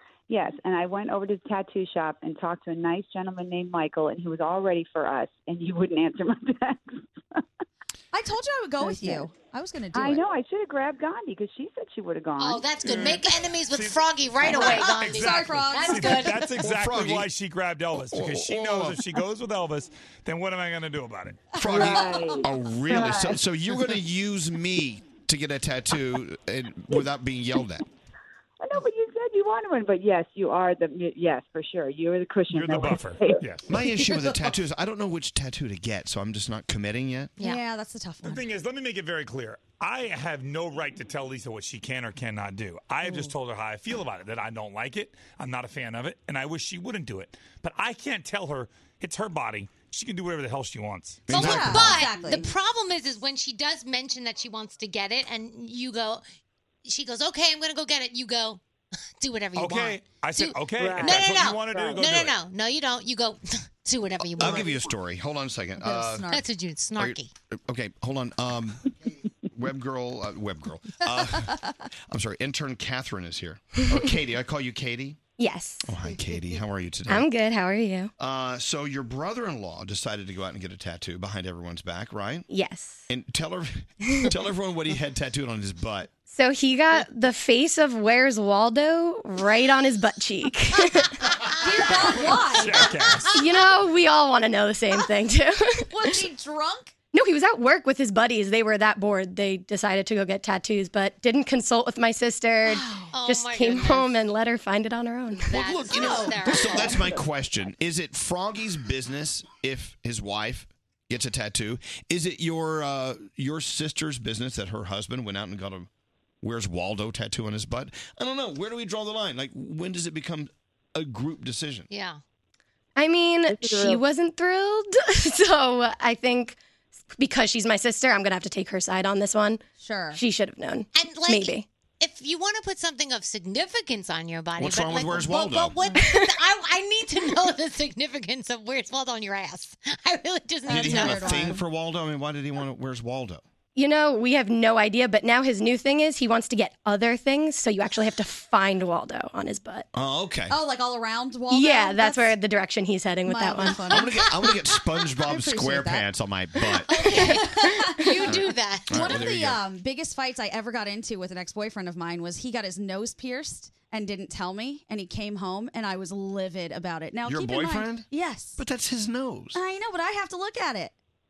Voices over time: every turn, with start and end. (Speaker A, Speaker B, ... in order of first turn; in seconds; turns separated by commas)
Speaker A: 0.3-7.0, Speaker B: 8.1-10.3, Speaker A: 8.8-9.3, Speaker A: 9.9-12.7, Speaker C: 12.4-16.5, Speaker D: 12.8-21.5, Speaker B: 14.4-16.3, Speaker E: 16.6-17.3, Speaker E: 18.0-19.0, Speaker B: 21.6-22.4, Speaker E: 21.6-27.8, Speaker A: 21.6-23.4, Speaker A: 28.6-33.4, Speaker D: 32.5-33.7, Speaker E: 33.7-37.3, Speaker B: 37.4-38.5, Speaker D: 38.2-51.4, Speaker E: 51.3-52.0, Speaker B: 51.3-52.5, Speaker C: 51.3-56.2, Speaker C: 56.9-58.6, Speaker C: 59.2-64.8, Speaker D: 59.5-62.4, Speaker A: 60.8-62.0, Speaker E: 64.3-66.3, Speaker B: 65.8-66.4, Speaker C: 66.3-67.3, Speaker E: 67.0-68.8, Speaker E: 69.5-71.6, Speaker E: 72.1-75.2, Speaker F: 75.4-75.9, Speaker E: 75.8-77.3, Speaker F: 77.1-78.1, Speaker E: 78.2-82.5, Speaker F: 82.5-83.0, Speaker E: 83.1-86.1, Speaker F: 86.2-91.2, Speaker B: 91.6-93.0, Speaker D: 92.5-93.4, Speaker F: 93.3-96.2, Speaker B: 95.9-96.9, Speaker F: 97.1-105.5, Speaker B: 102.7-103.1, Speaker C: 103.1-104.2, Speaker C: 105.5-107.1, Speaker E: 105.5-115.9, Speaker B: 105.9-107.1, Speaker E: 116.4-121.9, Speaker C: 121.9-122.2, Speaker F: 123.0-126.6, Speaker A: 123.5-124.0, Speaker F: 127.2-129.6, Speaker B: 129.8-130.2, Speaker F: 130.1-131.7, Speaker C: 130.9-141.6, Speaker E: 134.6-135.8, Speaker B: 140.7-141.6, Speaker E: 140.7-143.4, Speaker F: 143.8-149.9, Speaker E: 149.9-150.6, Speaker B: 150.5-152.4, Speaker F: 151.5-153.9, Speaker B: 153.3-154.5, Speaker E: 153.8-156.9, Speaker B: 155.2-156.1, Speaker B: 156.7-158.4, Speaker C: 156.9-159.2, Speaker E: 158.2-159.6, Speaker B: 158.9-168.6, Speaker E: 167.3-169.6, Speaker B: 169.5-171.0